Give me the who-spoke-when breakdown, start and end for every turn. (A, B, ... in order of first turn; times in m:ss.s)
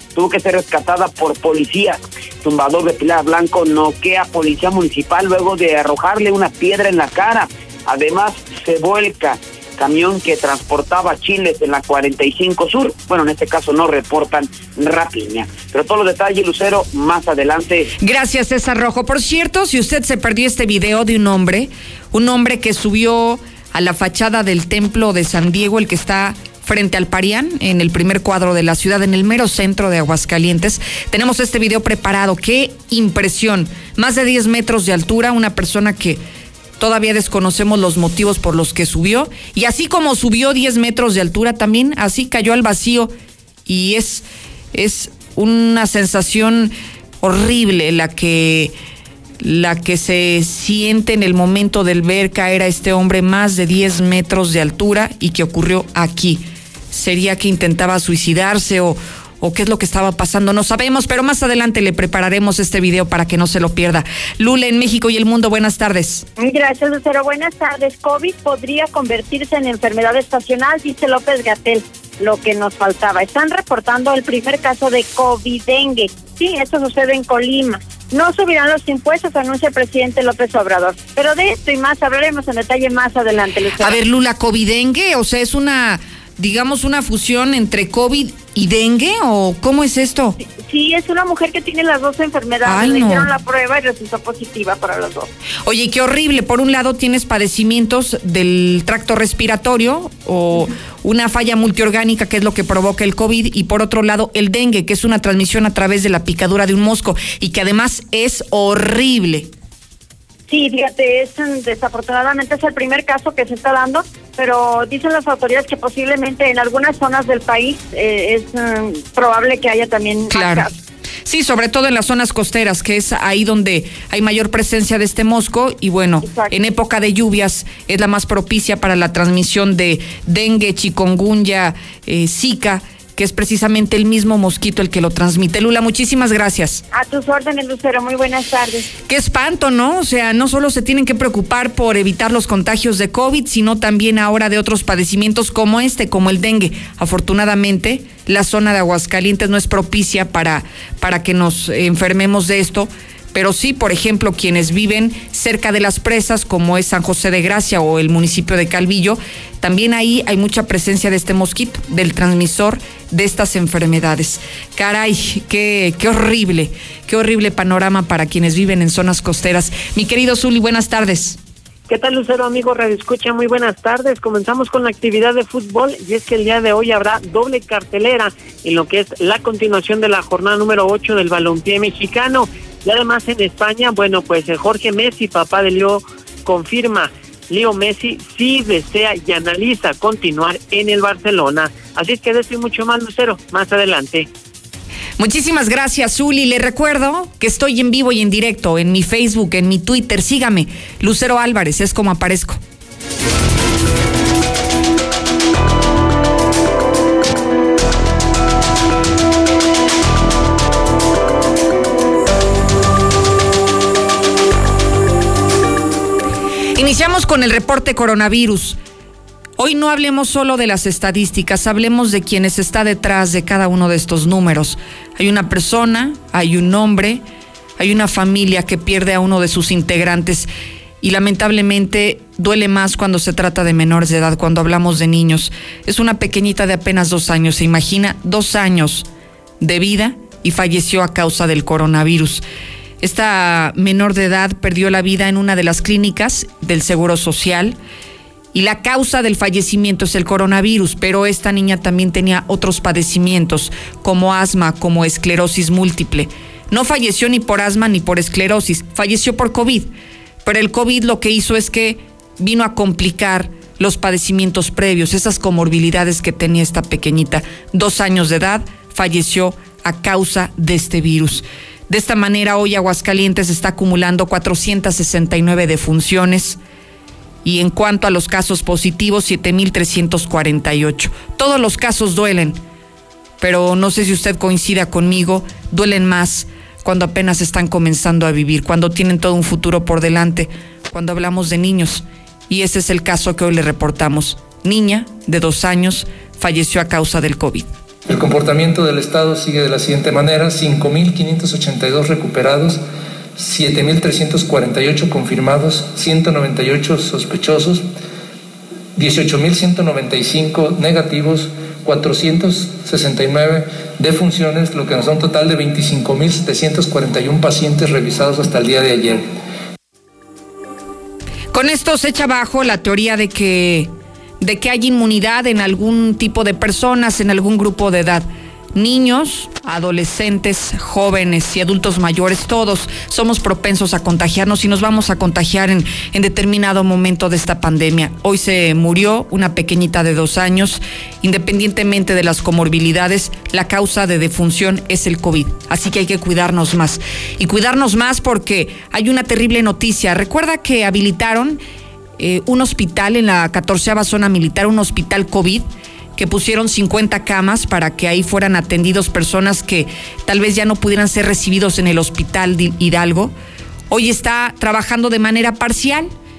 0:00.1-0:17.9 A
0:18.0-0:36.2 B
0:36.8-0:43.1 B
0:43.7-0:48.7 B
0:49.4-1:06.2 B
1:06.4-1:24.0 C
1:23.8-1:30.4 B
1:30.4-1:35.3 C
1:32.6-1:33.3 B
1:35.6-1:49.5 B
1:50.5-2:00.7 C
2:00.3-2:00.7 B
2:01.2-2:16.8 B
2:06.2-2:06.5 C
2:16.9-2:18.9 C
2:19.1-2:51.4 B
2:51.9-3:14.3 D
3:15.2-3:22.6 B
3:36.8-3:38.8 B
3:39.6-3:47.2 B
3:47.8-3:50.5 B
3:51.0-3:59.0 B
3:59.6-4:02.4 B
4:03.0-4:07.8 B
4:08.5-4:19.9 B
4:20.4-4:36.6 B
4:37.4-4:42.6 B
4:43.4-4:57.7 B
4:58.1-5:02.8 E
5:03.4-5:07.9 E
5:09.0-5:19.3 E
5:21.5-5:51.6 B
5:52.2-6:03.3 B
6:03.9-6:06.1 B